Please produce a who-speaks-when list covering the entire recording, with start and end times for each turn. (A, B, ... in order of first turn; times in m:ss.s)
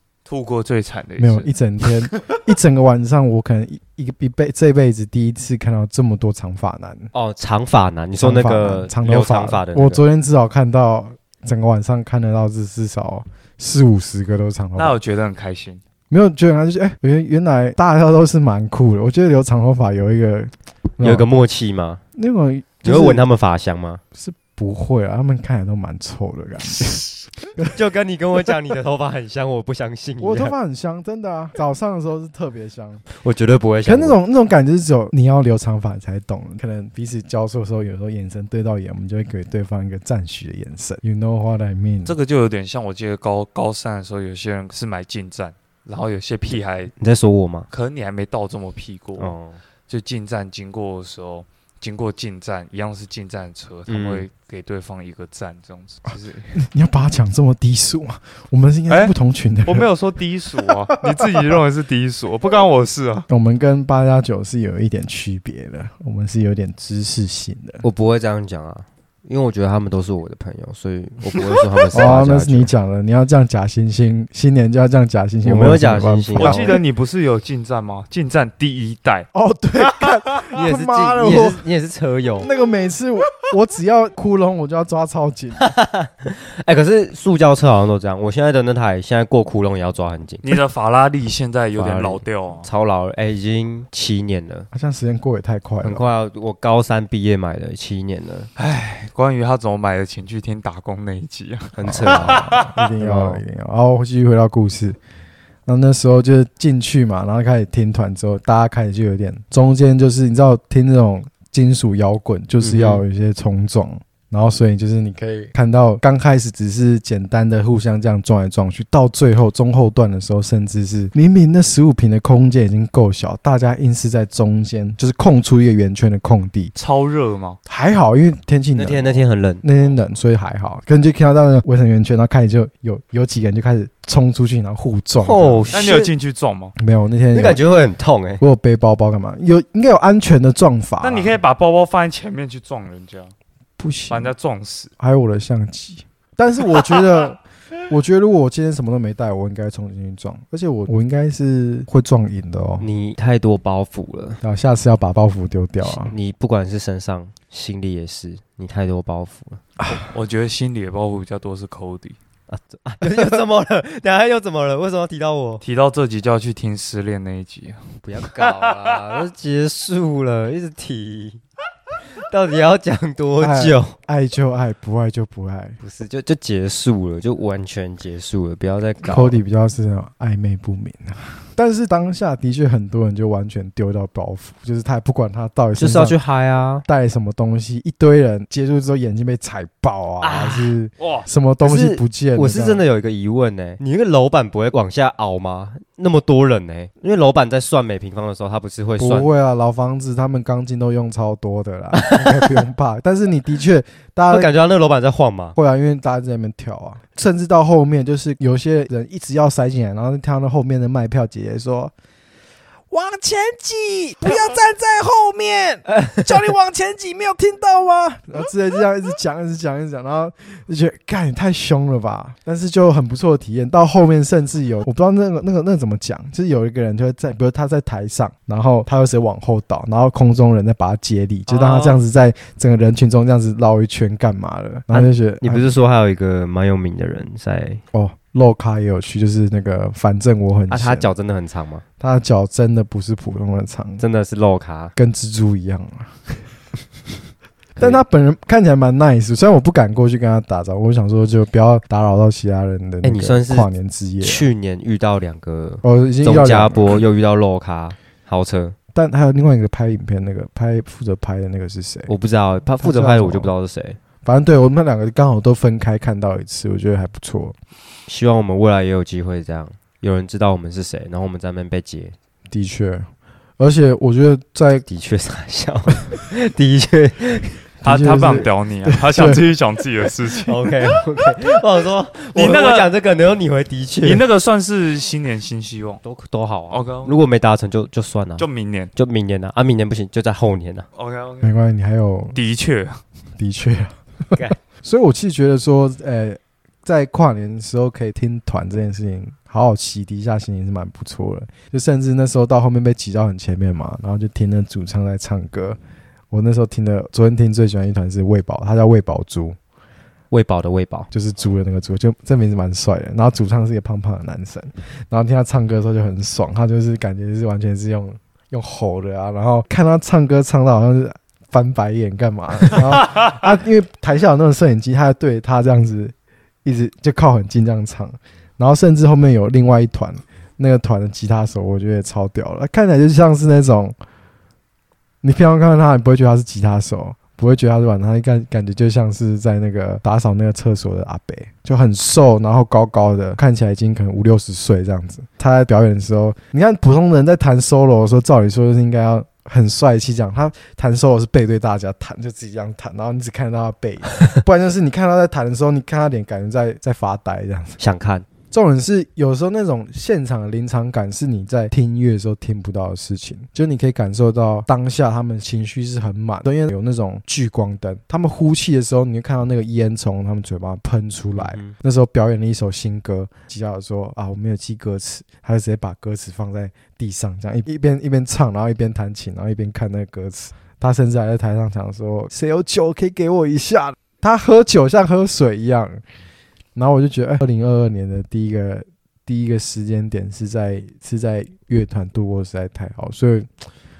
0:00.2-0:02.2 A
0:01.2-0:07.1 B
0:07.1-0:10.0 C
0:08.2-0:15.0 B
0:14.8-0:15.8 A
0:16.1-0:21.3 B
0:21.0-0:22.0 C
0:22.2-0:23.2 B
0:22.8-0:24.0 C
0:24.1-0:27.7 B
0:27.7-0:30.5 C
0:30.2-0:33.0 B
0:33.1-0:34.2 C
0:33.8-0:42.2 B
0:42.0-0:46.9 A
0:47.0-0:47.7 C
0:47.7-0:49.4 A
0:49.2-0:49.6 C
0:49.9-0:56.6 A
0:53.9-0:54.2 C
0:56.5-0:59.9 B
0:58.9-0:59.1 A
0:59.6-1:03.2 A
1:00.6-1:01.4 B
1:03.3-1:07.8 B
1:07.8-1:12.7 C
1:11.9-1:16.8 B
1:15.4-1:16.8 C
1:16.4-1:19.3 A
1:19.3-1:21.6 B
1:19.8-1:20.1 A
1:20.5-1:22.5 C
1:22.4-1:25.7 B
1:25.6-1:30.5 C
1:30.4-1:32.7 A
1:31.7-1:34.7 C
1:34.7-1:36.0 B
1:35.8-1:38.5 C
1:38.6-1:42.7 A
1:41.8-1:42.4 C
1:41.8-1:45.0 B
1:43.0-1:43.4 C
1:45.6-2:06.7 B
1:52.6-1:53.0 C
2:06.7-2:07.6 A
2:07.6-2:15.7 B
2:08.8-2:09.6 C
2:15.2-2:16.1 C
2:15.7-2:16.7 A
2:16.8-2:17.6 B
2:17.3-2:18.4 C
2:18.4-2:21.4 B
2:21.0-2:23.3 A
2:23.8-2:24.3 B
2:24.1-2:24.9 A
2:25.0-2:32.9 B
2:32.8-2:34.4 C
2:34.4-2:36.1 B
2:35.8-2:39.6 C
2:39.8-2:40.0 B
2:40.1-2:42.2 A
2:42.5-2:45.6 C
2:45.6-2:49.2 A
2:48.0-2:51.4 C
2:52.1-2:54.0 C
2:53.4-2:55.8 B
2:55.8-2:59.4 C
2:59.0-3:06.2 B
3:05.8-3:06.8 C
3:06.8-3:12.8 B
3:10.2-3:10.7 C
3:11.0-3:11.2 A
3:11.6-3:19.3 C
3:19.0-3:24.5 B
3:22.0-3:22.5 C
3:24.3-3:25.6 C
3:25.6-3:31.9 B
3:32.9-3:55.8 B
3:51.5-3:52.0 C
3:54.9-3:57.8 C
3:57.9-4:01.1 B
4:00.7-4:01.8 C
4:02.0-4:04.0 B
4:04.0-4:04.9 C
4:04.9-4:06.4 B
4:07.8-4:08.0 C
4:07.8-4:14.4 B
4:13.0-4:13.7 C
4:14.2-4:18.7 C
4:15.8-4:17.0 B
4:18.9-4:22.1 B
4:22.1-4:24.0 C
4:22.8-4:23.5 B
4:24.2-4:27.6 B
4:28.1-4:32.1 C
4:32.5-4:34.8 B
4:34.9-4:37.6 C
4:37.8-4:39.4 B
4:37.8-4:40.7 A
4:40.5-4:44.2 C
4:42.3-4:42.9 A
4:44.0-4:46.0 A
4:46.0-4:50.9 C
4:46.7-4:47.1 A
4:48.4-4:48.9 A
4:50.9-4:51.5 A
4:51.4-4:52.4 B
4:52.3-4:53.0 A
4:53.4-5:05.8 B
5:06.3-5:09.6 B
5:10.3-5:11.1 C
5:11.1-5:33.9 B
5:35.2-5:57.8 B
5:57.8-5:58.3 C
5:58.5-6:26.0 B
6:11.4-6:11.7 C
6:26.7-6:33.5 B